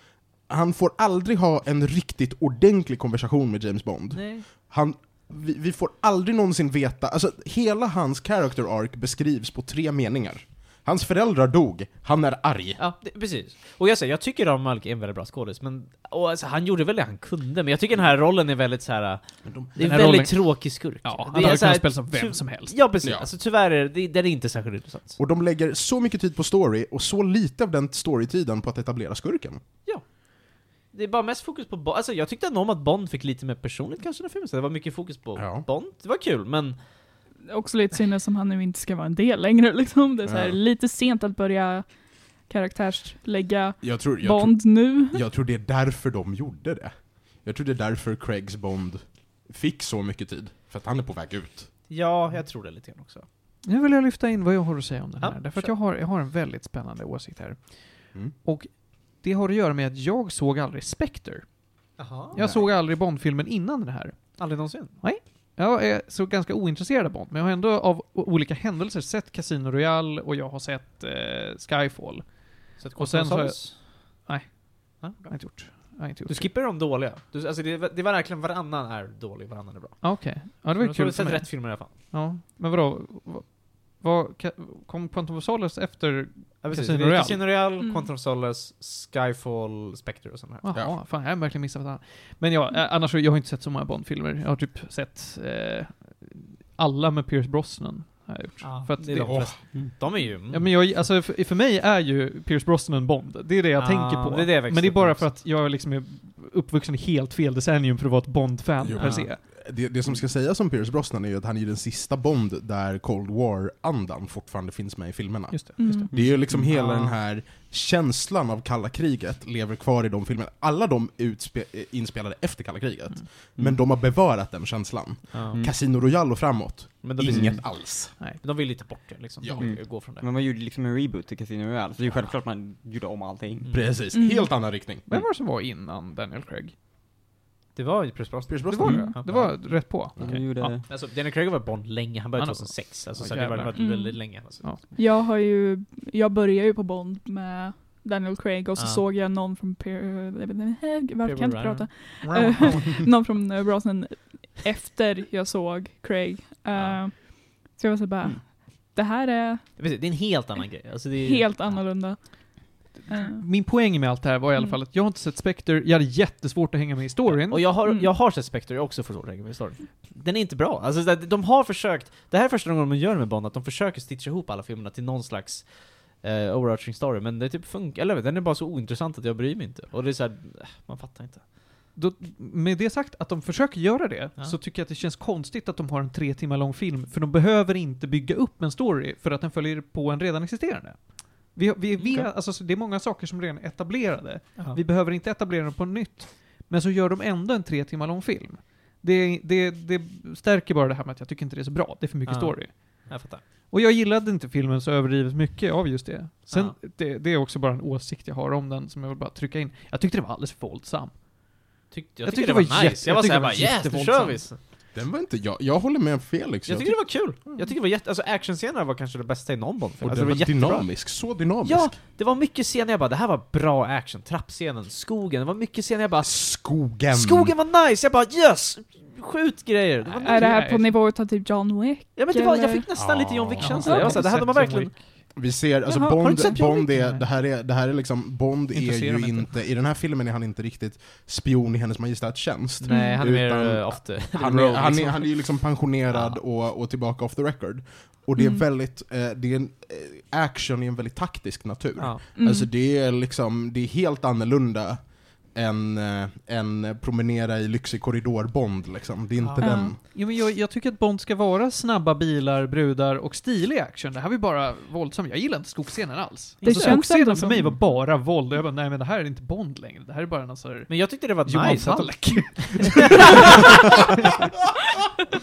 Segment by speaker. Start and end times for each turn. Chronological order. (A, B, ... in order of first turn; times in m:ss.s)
0:00.5-0:12.8 A
0:04.1-0:04.5 B
0:12.8-0:25.2 B
0:19.4-0:19.7 A
0:19.8-0:22.8 C
0:23.0-0:23.3 A
0:25.2-0:29.6 A
0:30.9-0:36.8 B
0:35.4-0:35.6 A
0:37.4-0:45.2 D
0:40.2-0:40.6 A
0:43.8-0:51.7 A
0:51.9-0:53.2 B
0:53.6-1:01.6 C
0:55.2-0:55.7 B
1:02.0-1:02.5 B
1:02.3-1:04.4 C
1:02.4-1:02.6 A
1:04.4-1:05.0 B
1:05.0-1:16.5 C
1:12.8-1:13.8 B
1:15.0-1:21.9 B
1:20.0-1:27.5 C
1:26.6-1:30.6 B
1:27.8-1:28.1 D
1:30.6-1:39.6 C
1:38.6-1:40.7 B
1:39.2-1:39.6 A
1:40.5-1:49.4 C
1:43.8-1:45.3 B
1:48.8-2:08.1 A
1:49.0-1:49.3 B
1:55.5-1:56.1 C
1:55.8-1:56.1 D
1:56.1-1:56.6 E
1:56.7-1:57.1 B
2:05.3-2:05.7 B
2:07.0-2:10.2 B
2:07.2-2:07.6 E
2:09.4-2:09.8 A
2:09.6-2:14.0 E
2:13.6-2:13.9 B
2:13.7-2:15.1 A
2:14.1-2:14.6 D
2:15.1-2:16.7 C
2:17.7-2:19.6 B
2:18.5-2:19.6 A
2:18.7-2:20.8 C
2:20.2-2:20.8 E
2:20.8-2:24.8 B
2:22.4-2:23.7 C
2:23.7-2:24.4 D
2:24.5-2:24.8 C
2:24.9-2:39.8 D
2:28.8-2:29.0 B
2:31.2-2:33.0 B
2:36.7-2:37.0 B
2:39.8-2:42.2 B
2:41.1-2:43.4 D
2:42.9-2:47.7 C
2:47.2-3:01.4 B
2:47.8-2:48.1 D
3:01.9-3:31.6 C
3:12.0-3:12.3 B
3:22.2-3:23.4 B
3:26.5-3:26.8 B
3:31.9-3:34.6 B
3:32.2-3:34.5 C
3:34.9-3:37.3 A
3:36.6-3:50.6 B
3:40.0-3:42.0 A
3:46.2-3:47.5 A
3:50.1-3:51.0 C
3:50.2-3:52.9 D
3:52.2-3:54.9 B
3:52.9-3:53.9 A
3:53.6-3:55.2 C
3:53.8-3:54.5 D
3:55.3-4:20.0 A
3:55.9-3:57.2 C
3:56.2-3:56.8 D
3:58.7-3:59.6 C
4:02.8-4:06.4 B
4:02.8-4:03.2 D
4:08.4-4:08.6 D
4:12.0-4:12.2 B
4:12.4-4:12.7 D
4:19.4-4:19.7 B
4:19.6-4:19.9 D
4:20.0-4:33.5 C
4:26.6-4:27.0 B
4:26.6-4:27.7 D
4:30.9-4:33.6 B